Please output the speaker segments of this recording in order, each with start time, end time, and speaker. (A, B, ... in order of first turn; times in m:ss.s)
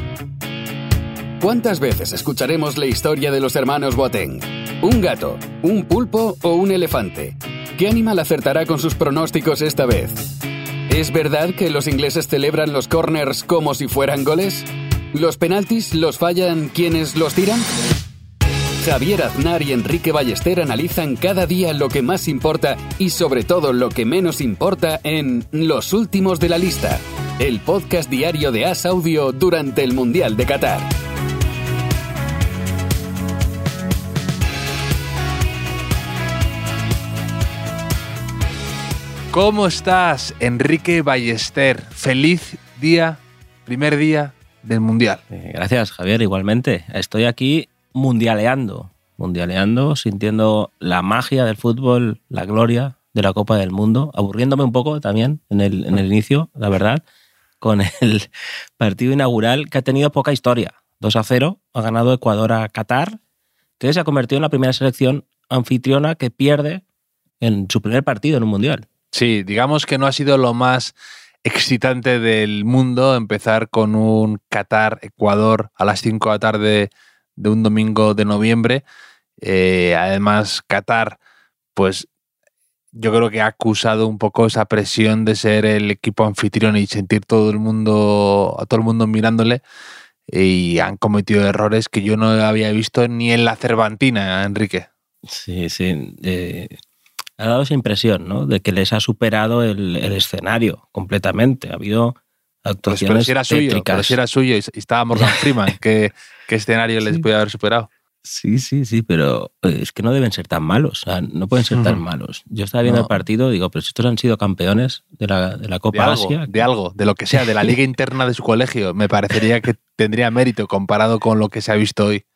0:01.4-0:10.3 A
0:10.9-0:17.7 A
0:18.8-0:30.9 A
0:39.3-0:45.2 B
0:45.3-0:57.0 C
0:57.6-1:03.2 C
1:03.8-1:06.8 C
1:07.4-1:08.8 C
1:09.1-1:18.8 B
1:19.4-1:21.2 B
1:21.7-1:22.1 B
1:22.9-1:29.6 B
1:30.3-1:34.9 B
1:35.3-1:36.8 C
1:37.4-1:44.2 C
1:42.9-1:47.9 B
1:45.1-1:45.4 C
1:48.2-1:56.5 C
1:51.7-1:52.0 B
1:55.9-2:02.2 B